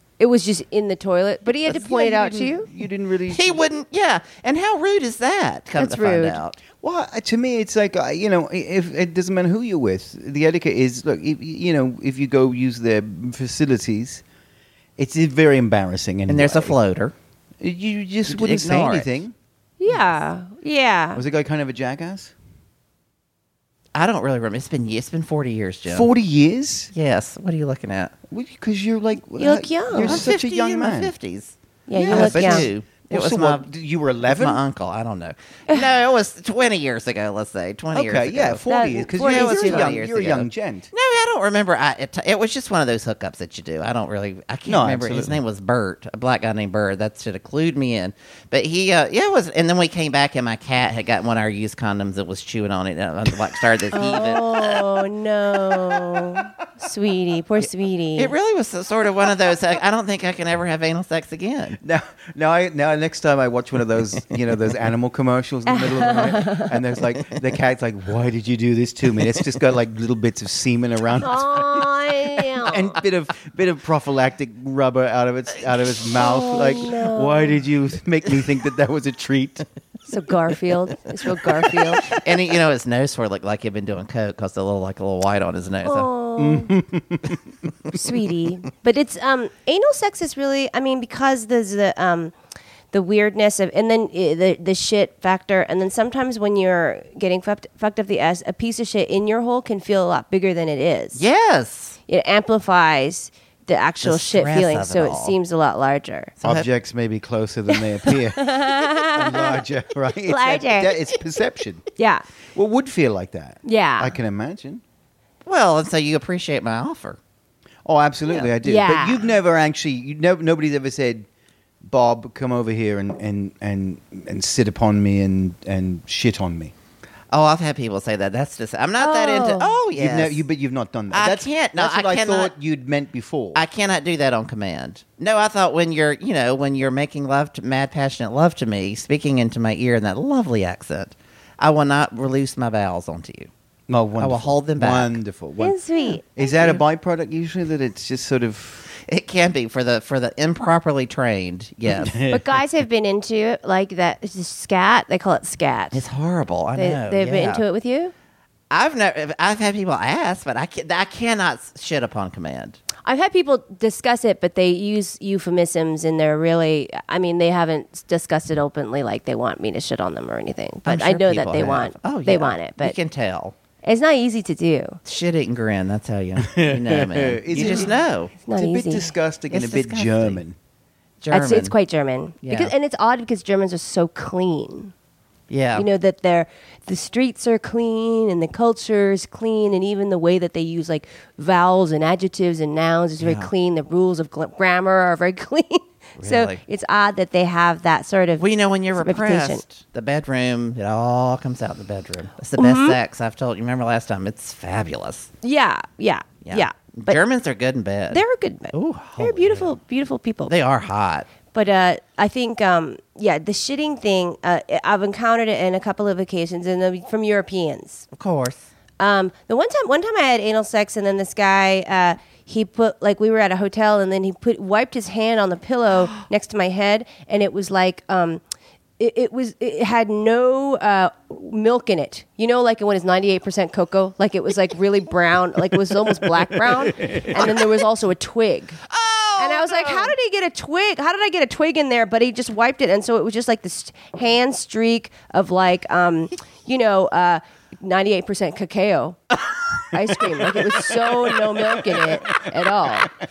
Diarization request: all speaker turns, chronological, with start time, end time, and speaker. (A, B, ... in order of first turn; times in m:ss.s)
0:00.2-0:02.7 A
0:01.6-0:03.6 B
0:03.3-0:06.6 C
0:05.8-0:06.4 A
0:06.8-0:14.2 B
0:15.0-0:16.8 B
0:16.3-0:17.1 C
0:17.6-0:19.3 B
0:18.3-0:19.1 C
0:19.8-0:21.2 A
0:21.1-0:22.3 B
0:23.9-0:26.1 C
0:25.9-0:26.9 B
0:26.9-0:28.1 C
0:28.3-0:31.1 B
0:29.4-0:30.3 A
0:30.0-0:33.7 C
0:31.9-0:32.7 A
0:32.0-0:34.6 B
0:34.2-0:38.6 C
0:37.9-0:40.9 B
0:38.7-0:39.9 A
0:39.1-0:55.0 C
0:44.6-0:45.4 B
0:53.9-0:58.3 A
0:58.2-1:01.8 C
1:01.8-1:11.8 B
1:05.7-1:06.7 A
1:11.2-1:13.0 A
1:12.6-1:19.6 B
1:16.1-1:17.6 A
1:20.1-1:22.1 A
1:22.0-1:26.1 C
1:25.8-1:26.7 A
1:26.4-1:27.4 B
1:27.9-1:32.3 A
1:32.9-1:41.2 A
1:41.2-1:42.0 C
1:42.1-1:46.3 A
1:44.0-1:45.4 C
1:46.4-1:46.7 C
1:46.4-1:51.8 B
1:48.1-1:49.6 A
1:50.2-1:51.0 A
1:52.0-1:52.2 A
1:52.5-1:54.8 B
1:53.6-1:54.2 A
1:55.4-1:57.2 C
1:57.8-2:01.2 B
1:58.6-1:59.2 A
2:01.8-2:06.7 B
2:07.3-2:10.4 C
2:09.0-2:09.7 A
2:09.9-2:13.6 B
2:11.1-2:12.5 C
2:13.5-2:23.5 C
2:23.9-2:25.8 B
2:24.2-2:25.2 C
2:25.6-2:26.8 A
2:26.3-2:28.9 B
2:29.0-2:32.2 C
2:31.8-2:32.6 B
2:32.3-2:36.0 A
2:35.9-2:37.6 C
2:36.8-2:38.1 A
2:38.7-2:42.8 C
2:43.0-2:53.0 A
2:50.8-2:53.5 C
2:53.8-2:55.0 A
2:55.0-2:58.3 C
2:56.5-2:57.9 B
2:57.6-2:59.1 A
2:58.5-3:00.6 B
2:59.5-3:00.4 C
3:01.2-3:01.7 C
3:01.3-3:04.9 A
3:02.4-3:02.7 C
3:05.5-3:05.9 C
3:05.7-3:18.4 A
3:13.2-3:13.5 C
3:16.2-3:16.6 C
3:18.4-3:25.3 C
3:19.0-3:19.6 A
3:22.6-3:23.0 A
3:25.4-3:27.2 A
3:26.4-3:29.7 C
3:28.1-3:30.5 A
3:30.5-3:31.3 C
3:31.5-3:38.0 A
3:38.1-3:38.7 C
3:39.0-3:48.4 A
3:49.0-3:58.8 A
3:57.1-3:57.8 C
3:58.8-4:00.1 C
3:59.4-4:09.2 A
4:09.9-4:13.1 A
4:10.4-4:11.0 C